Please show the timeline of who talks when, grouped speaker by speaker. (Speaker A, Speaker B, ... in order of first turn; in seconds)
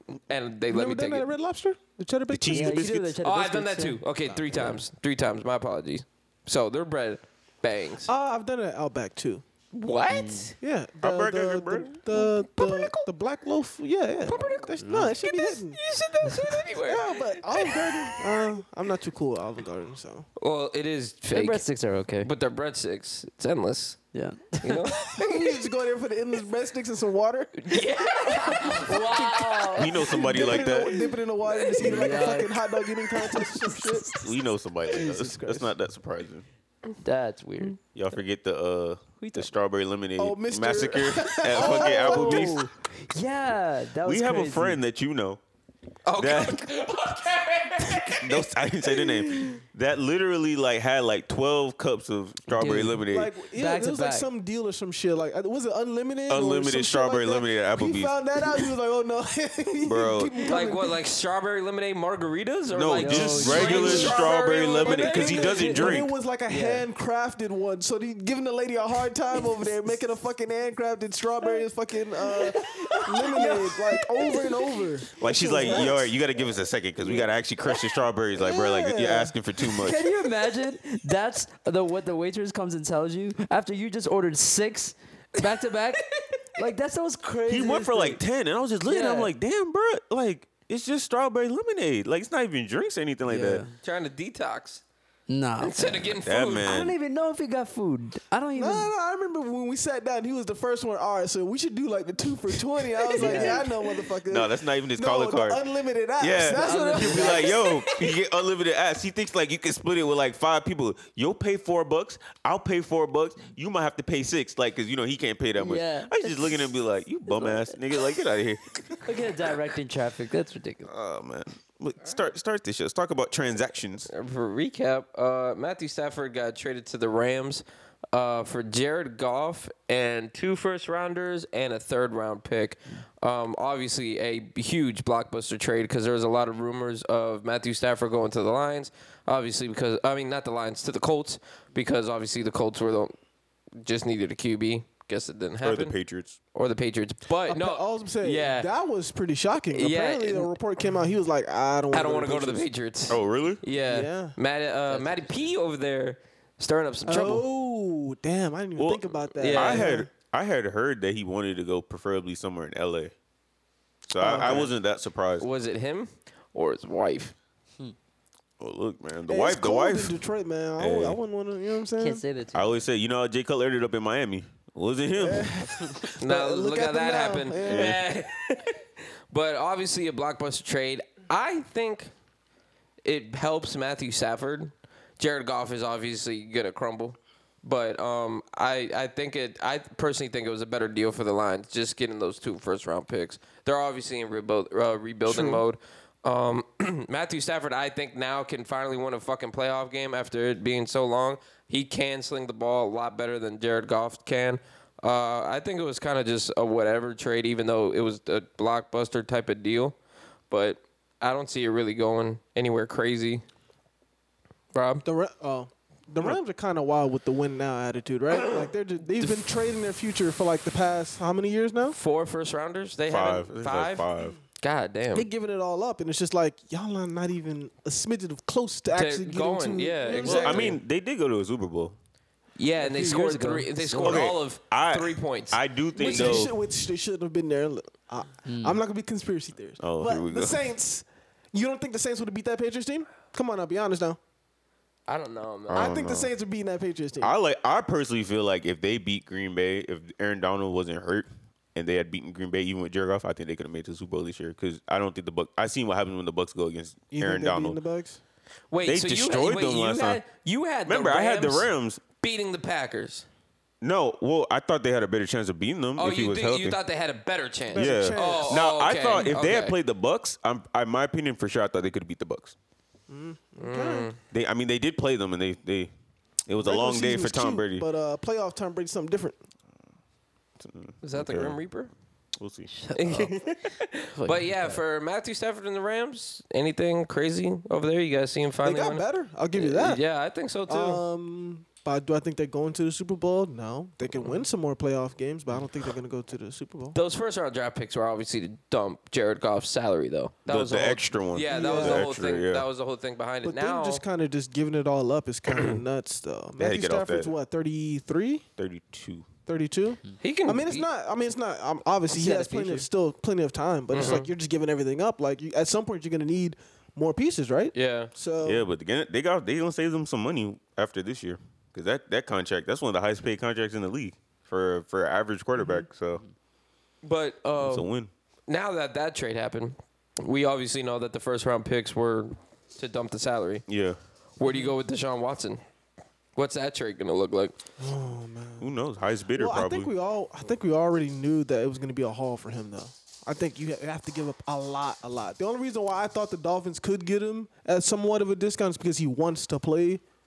Speaker A: 0.3-1.3, 3.2-8.1, 9.7-10.6, 12.1-13.1, 14.2-18.5, 20.4-21.6, 22.2-24.0, 24.6-25.3, 27.6-32.4, 46.0-49.6, 60.4-65.8, 93.8-94.8, 95.6-96.7, 124.1-143.1, 143.8-145.9, 146.5-148.7, 149.7-150.5, 151.9-157.4, 159.4-159.9, 165.4-167.3, 176.2-182.1, 183.0-209.9, 210.5-213.4, 214.7-215.0, 221.9-224.1, 224.6-225.3, 228.9-230.8, 232.6-236.5, 245.1-245.9, 258.7-261.7, 262.2-263.2, 266.0-269.8, 273.6-274.2, 281.0-281.9, 282.9-291.0, 296.9-304.0, 305.5-305.8, 310.2-310.9, 312.3-312.6, 313.9-314.3, 317.7-318.1, 327.0-327.9, 328.5-333.6, 334.4-335.6, 336.4-337.5
Speaker B: 0.7-2.9, 8.1-9.4, 10.6-15.8, 16.8-20.3, 25.1-34.2, 34.9-35.7, 40.2-42.7, 53.1-61.0, 63.6-76.1, 78.4-79.3, 98.5-107.8, 147.5-152.7, 153.8-154.3, 157.1-160.1, 164.2-164.7, 169.3-172.2, 175.2-178.0, 195.2-195.6, 215.0-222.0, 225.1-230.8, 235.9-244.2, 245.7-247.3, 257.1-258.2, 267.7-268.6, 273.1-274.1, 276.6-279.4, 288.6-290.0, 290.7-297.0, 301.5-302.1, 303.4-308.4, 309.5-318.7, 334.4-334.7, 337.8-338.7, 339.3-350.0
Speaker C: 2.3-3.1, 11.0-11.9, 29.7-30.9, 34.2-36.5, 37.9-42.6, 44.0-45.4, 46.2-46.6, 48.1-53.3, 56.3-58.1, 59.8-60.3, 62.7-66.1, 75.2-80.0, 87.5-93.6, 96.2-97.0, 104.2-105.6, 106.2-119.0, 120.8-124.1, 145.6-146.4, 153.1-153.6, 158.8-163.1, 164.1-165.5, 168.6-170.2, 170.8-171.2, 172.5-175.6, 177.6-178.0, 223.1-224.4, 230.2-231.9, 234.0-236.5, 239.8-240.6, 245.7-246.3, 247.2-257.8, 258.8-260.2, 260.9-262.0, 263.8-266.8, 267.7-272.5, 274.3-275.9, 276.4-277.9, 280.6-281.6, 282.4-283.3, 300.5-302.6, 306.6-307.3, 308.6-309.3, 318.4-326.2, 327.6-328.1, 333.7-334.0, 338.6-339.9
Speaker D: 2.5-4.8, 10.1-10.5, 14.8-15.1, 21.3-22.3, 24.1-25.1, 28.5-29.8, 31.8-32.6, 33.1-34.2, 37.0-37.8, 39.2-39.5, 41.5-44.8, 52.5-54.3, 63.0-64.2, 66.5-66.8, 72.5-74.5, 79.8-86.0, 86.5-88.2, 88.9-89.3, 93.2-93.7, 95.3-96.0, 96.6-98.9, 103.2-103.7, 106.5-107.6, 115.6-116.7, 117.3-117.7, 119.0-120.9, 154.9-155.5, 172.0-172.8, 232.8-234.3, 238.4-238.8, 282.7-283.2, 284.2-284.8, 312.2-312.7